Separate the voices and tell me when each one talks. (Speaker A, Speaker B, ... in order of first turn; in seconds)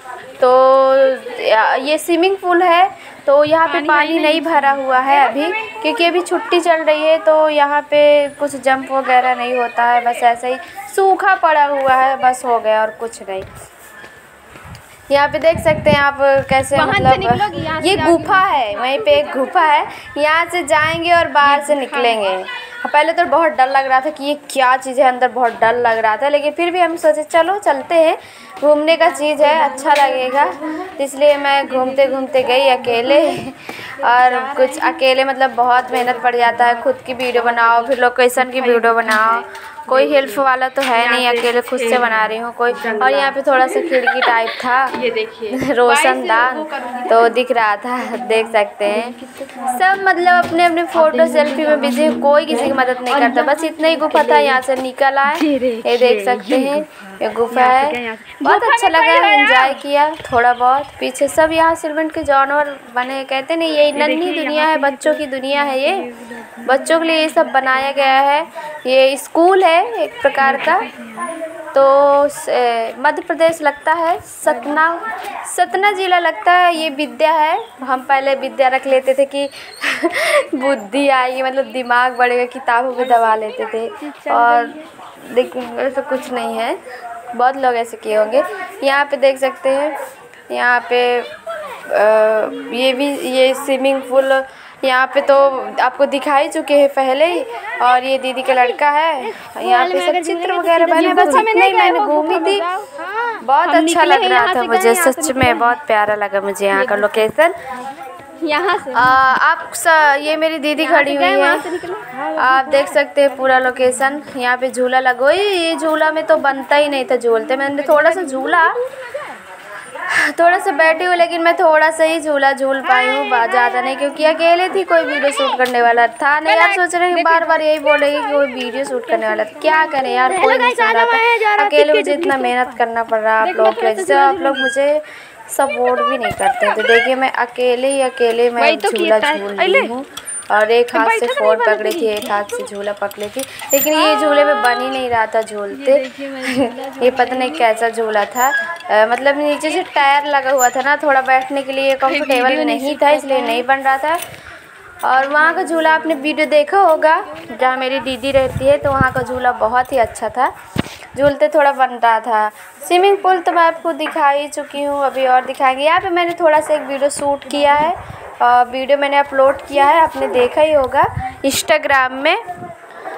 Speaker A: 0.4-13.5, 15.1-44.9, 45.5-49.2, 49.7-66.1, 66.7-70.9, 71.7-86.8, 87.3-90.0, 90.5-91.3, 91.9-102.7, 103.4-107.6, 108.9-111.8, 112.4-118.8, 120.1-154.2, 155.0-160.5, 161.2-172.4
Speaker B: 3.6-4.9, 16.7-19.3, 21.4-22.2, 29.5-30.0, 31.6-33.4, 34.1-35.0, 35.9-36.8, 37.4-47.4, 48.0-54.6, 55.3-59.8, 63.9-68.1, 70.4-71.3, 74.5-74.9, 84.0-84.9, 98.5-105.8, 106.7-107.3, 108.4-109.3, 110.8-114.2, 117.8-119.4, 122.8-125.6, 126.5-132.8, 133.4-134.7, 138.6-139.9, 140.9-142.7, 143.9-144.7, 145.7-147.7, 152.1-153.7, 155.1-157.6